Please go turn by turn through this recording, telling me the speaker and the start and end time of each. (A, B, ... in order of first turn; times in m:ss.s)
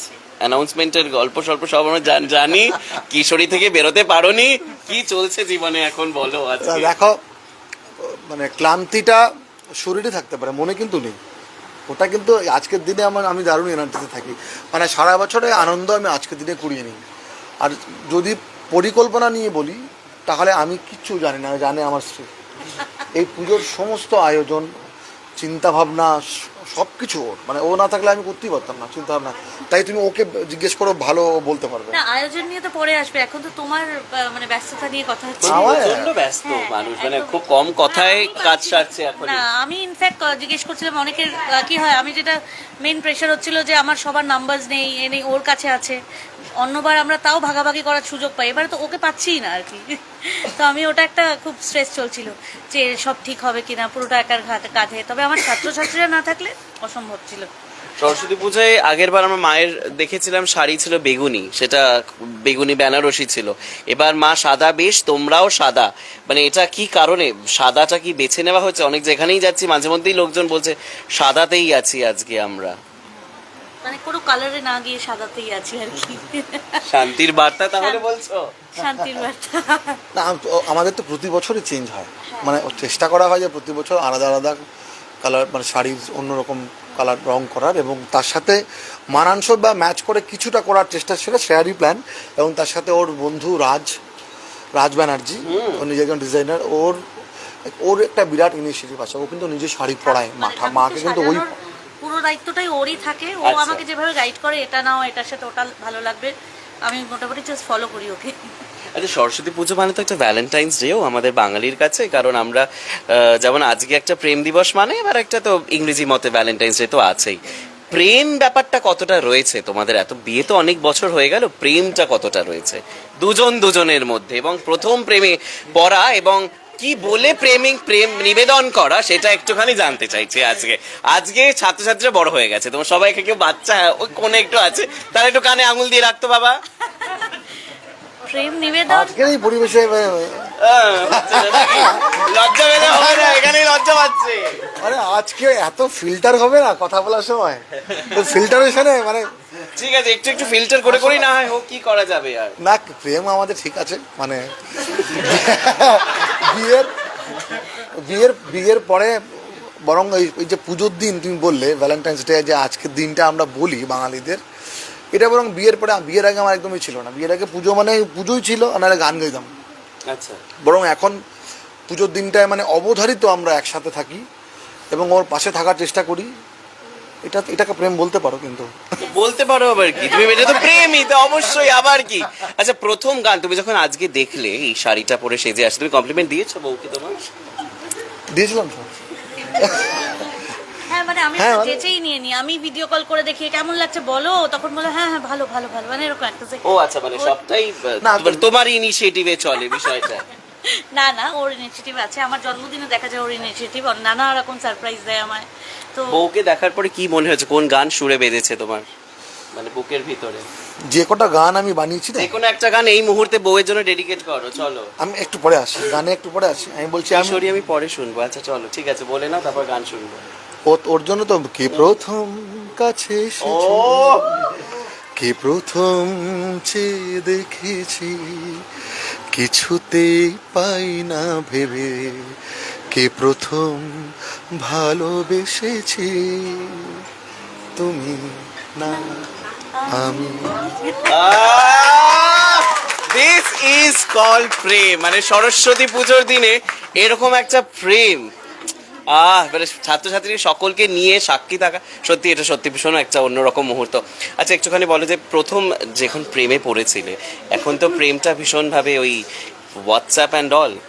0:00.4-0:06.9 A
0:06.6-0:07.2 B
0:08.0-0:09.2 B
0:09.8-0:11.2 B
0:11.9-0:17.0 B
0:17.6-0:22.3 B
0:23.1-0:24.7 B
0:25.4-0:32.0 B
0:31.9-0:35.9 C
0:35.4-0:39.4 A
0:35.5-0:36.1 B
0:36.4-0:46.0 C
0:46.6-0:57.5 C
0:58.0-1:01.9 A
1:02.4-1:12.8 A
1:13.8-1:16.8 C
1:16.8-1:18.5 A
1:17.8-1:18.0 C
1:18.7-1:20.0 C
1:20.1-1:24.6 B
1:22.3-1:22.6 C
1:25.2-1:28.6 B
1:29.1-1:33.9 B
1:34.8-1:37.0 B
1:35.4-1:35.8 A
1:37.8-1:41.4 B
1:40.0-1:46.3 C
1:43.4-1:43.8 A
1:46.8-1:48.4 C
1:48.9-1:57.4 A
1:57.9-2:16.6 A
2:18.2-2:19.1 C
2:18.9-2:20.5 B
2:20.6-2:24.7 A
2:21.0-2:22.2 B
2:22.7-2:23.4 B
2:24.8-2:29.2 B
2:29.7-2:32.5 A
2:32.6-2:36.9 B
2:38.0-2:44.4 B
2:45.1-2:49.5 B
2:50.1-2:50.4 A
2:50.6-2:51.2 B
2:51.9-2:54.2 B
2:54.9-2:56.3 B
2:57.2-2:58.7 B
2:59.0-3:07.2 A
3:08.3-3:10.4 B
3:10.8-3:17.4 C
3:11.4-3:11.8 B
3:16.6-3:20.2 A
3:18.0-3:18.4 B
3:20.6-3:26.2 C
3:26.1-3:28.9 A
3:29.5-3:30.5 A
3:30.9-3:32.3 B
3:32.1-3:34.9 A
3:35.0-3:37.5 B
3:37.1-3:40.2 A
3:40.7-3:44.6 B
3:43.4-3:44.5 A
3:45.2-3:48.6 B
3:49.3-3:52.3 B
3:52.9-3:53.9 B
3:54.6-3:57.0 B
3:57.8-3:59.2 B
3:59.8-4:01.0 C
3:59.9-4:00.5 B
4:01.1-4:08.2 A
4:09.1-4:19.2 A
4:19.8-4:20.8 A